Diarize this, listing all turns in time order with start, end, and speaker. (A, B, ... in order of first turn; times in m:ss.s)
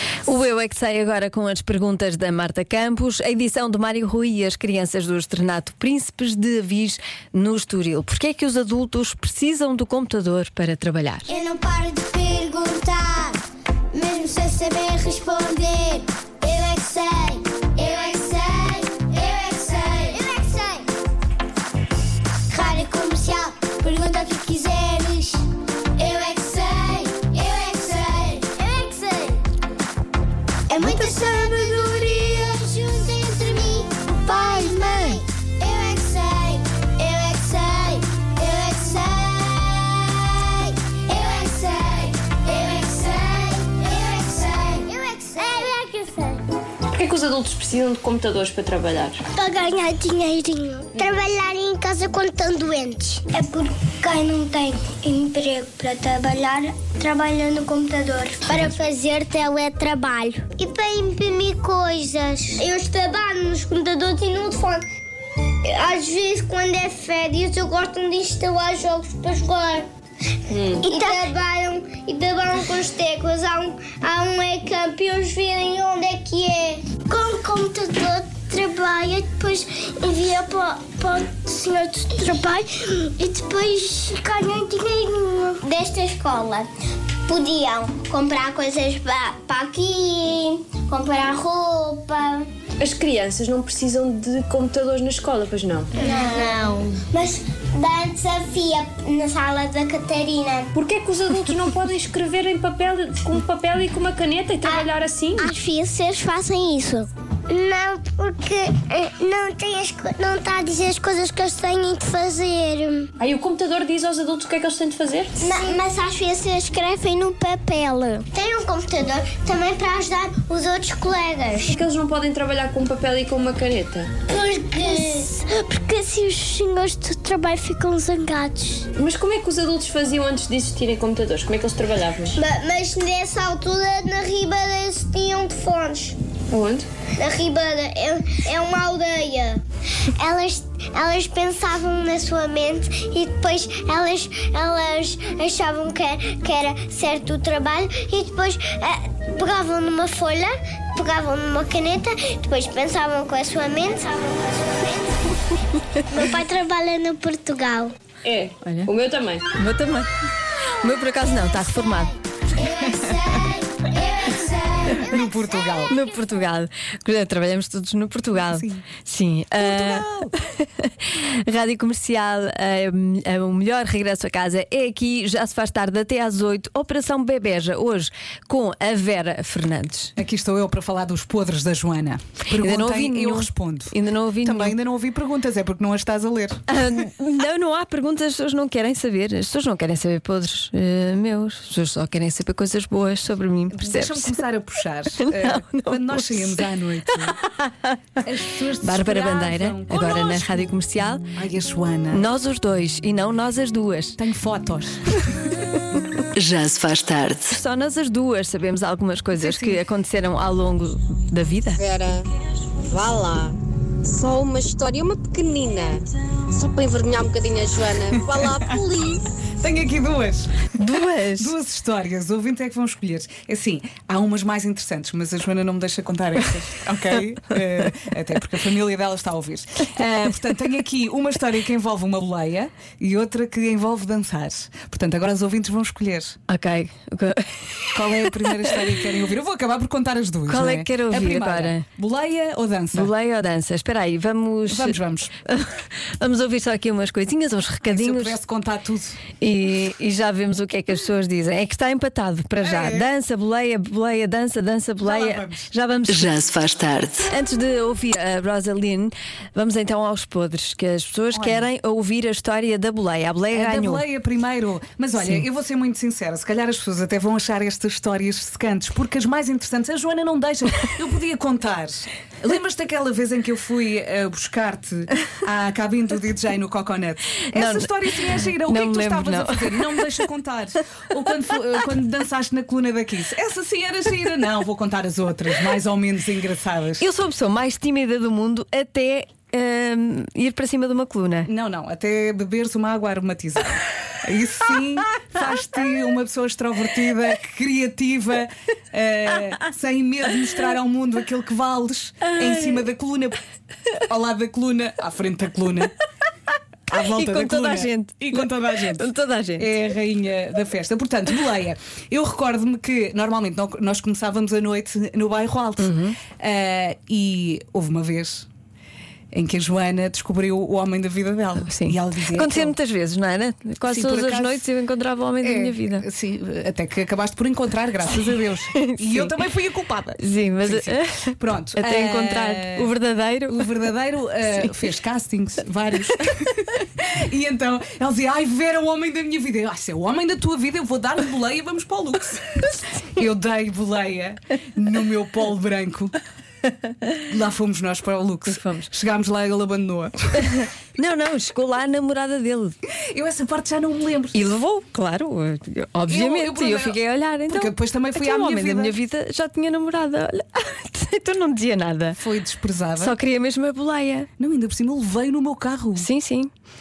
0:00.2-0:11.3 A
0:11.3-0:13.4 B
0:13.9-0:20.8 B
0:22.5-0:25.4 B
0:26.0-0:29.4 B
0:30.7-0:46.4 B
0:46.9-0:49.2 C
0:49.3-1:04.8 B
1:05.6-1:09.9 B
1:10.5-1:11.2 C
1:10.8-1:26.7 B
1:27.2-1:32.5 B
1:32.8-1:36.5 C
1:35.9-1:40.7 B
1:40.7-1:45.5 C
1:44.6-1:53.1 B
1:53.2-1:55.5 C
1:55.4-2:01.8 B
2:01.7-2:04.1 C
2:04.2-2:08.9 B
2:09.0-2:12.4 C
2:12.3-2:16.2 B
2:16.5-2:16.9 C
2:17.1-2:37.9 B
2:38.2-2:39.5 C
2:38.6-2:38.9 A
2:39.5-2:42.1 A
2:42.6-2:46.1 B
2:42.8-2:43.3 D
2:45.0-2:45.9 D
2:45.9-3:00.1 A
2:48.3-2:48.8 D
2:49.6-2:50.3 D
3:00.2-3:06.6 D
3:02.5-3:04.8 A
3:06.7-3:14.4 A
3:13.7-3:17.4 D
3:15.2-3:16.7 A
3:17.4-3:18.0 A
3:18.2-3:20.7 D
3:18.8-3:21.3 A
3:21.3-3:22.3 D
3:22.1-3:24.2 A
3:24.2-3:25.3 D
3:26.3-3:27.6 E
3:27.5-3:31.8 A
3:29.4-3:29.8 D
3:31.8-3:32.3 F
3:32.8-3:39.2 F
3:38.5-3:38.8 D
3:39.6-3:40.7 D
3:40.7-3:41.5 A
3:41.4-3:56.4 D
3:56.5-3:58.8 A
3:57.9-4:03.1 D
4:00.5-4:01.8 A
4:02.9-4:08.4 A
4:04.7-4:05.3 D
4:07.8-4:09.2 D
4:09.4-4:16.3 A
4:12.6-4:13.1 D
4:15.0-4:15.7 D
4:16.1-4:17.3 E
4:17.3-4:24.0 A
4:21.3-4:21.6 D
4:23.5-4:47.0 D
4:37.5-4:40.2 A
4:47.0-4:51.5 A
4:51.4-5:03.4 D
5:02.2-5:02.8 A
5:04.0-5:05.9 D
5:06.9-5:18.5 D
5:06.9-5:09.7 A
5:15.8-5:16.2 A
5:19.3-5:22.8 D
5:21.6-5:26.0 A
5:23.8-5:24.6 D
5:25.4-5:32.9 D
5:28.7-5:29.3 A
5:30.2-5:33.7 A
5:33.5-5:46.2 D
5:47.2-5:50.5 D
5:48.5-5:48.9 A
5:50.4-5:52.8 A
5:52.9-5:54.5 D
5:54.3-6:02.2 A
5:56.1-5:59.0 D
6:02.2-6:03.2 D
6:03.0-6:04.3 A
6:04.4-6:06.1 D
6:06.0-6:06.5 A